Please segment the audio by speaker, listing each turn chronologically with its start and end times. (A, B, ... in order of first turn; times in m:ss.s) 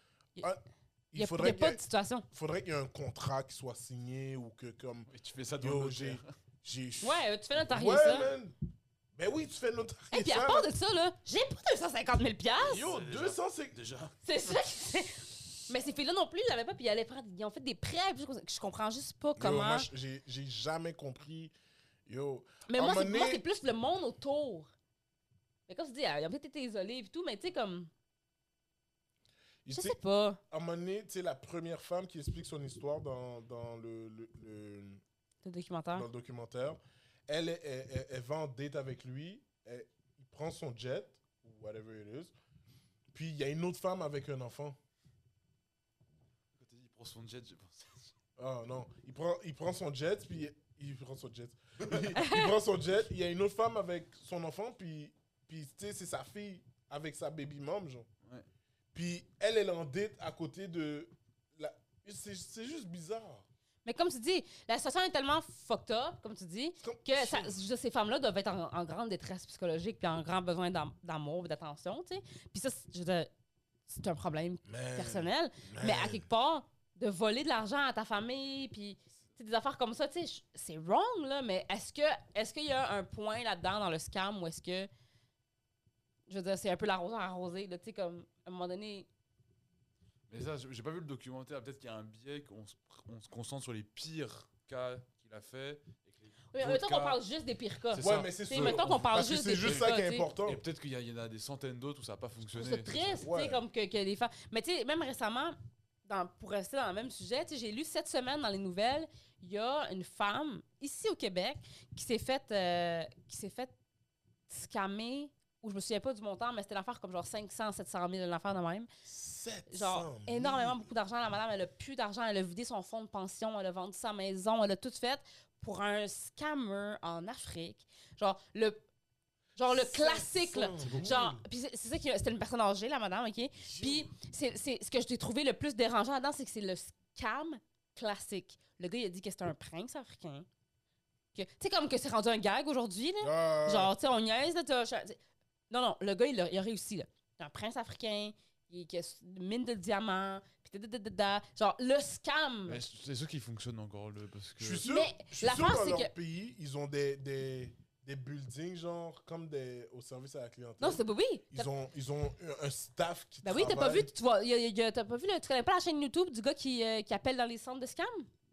0:01.1-0:08.5 A
0:01.2-0:02.2 B
0:05.1-0:06.3 C
0:07.0-0:08.3 B
0:09.1-0:10.7 A
0:10.1-0:12.8 B
0:12.6-0:14.2 C
0:12.7-0:13.8 A
0:14.2-0:19.9 B
0:19.4-0:21.5 A
0:22.0-0:23.4 A
0:22.7-0:24.7 B
0:25.7-0:27.9 B
0:29.6-0:30.0 A
0:29.7-0:30.4 B
0:30.5-0:35.0 A
0:35.4-0:36.1 B
0:35.9-0:42.3 A
0:43.1-0:44.8 A
0:46.5-0:48.1 C
0:48.4-0:58.1 A
0:52.1-0:52.5 B
0:58.9-1:03.4 A
1:03.8-1:13.3 B
1:06.8-1:07.6 A
1:13.9-1:24.9 B
1:14.6-1:16.3 A
1:26.3-1:29.1 B
1:30.3-1:37.2 C
1:36.5-1:40.3 B
1:37.9-1:43.2 C
1:38.0-1:40.6 A
1:42.5-1:53.7 B
1:43.2-1:43.6 A
1:54.5-1:58.9 B
1:59.0-2:00.9 A
1:59.7-2:08.8 B
2:09.6-2:20.4 B
2:09.7-2:11.4 A
2:10.8-2:11.1 C
2:13.6-2:14.1 A
2:21.3-2:25.2 B
2:23.2-2:23.9 A
2:25.7-2:32.8 B
2:32.7-2:34.8 C
2:34.6-2:44.1 A
2:34.8-2:36.1 B
2:40.8-2:41.7 B
2:43.4-2:48.3 B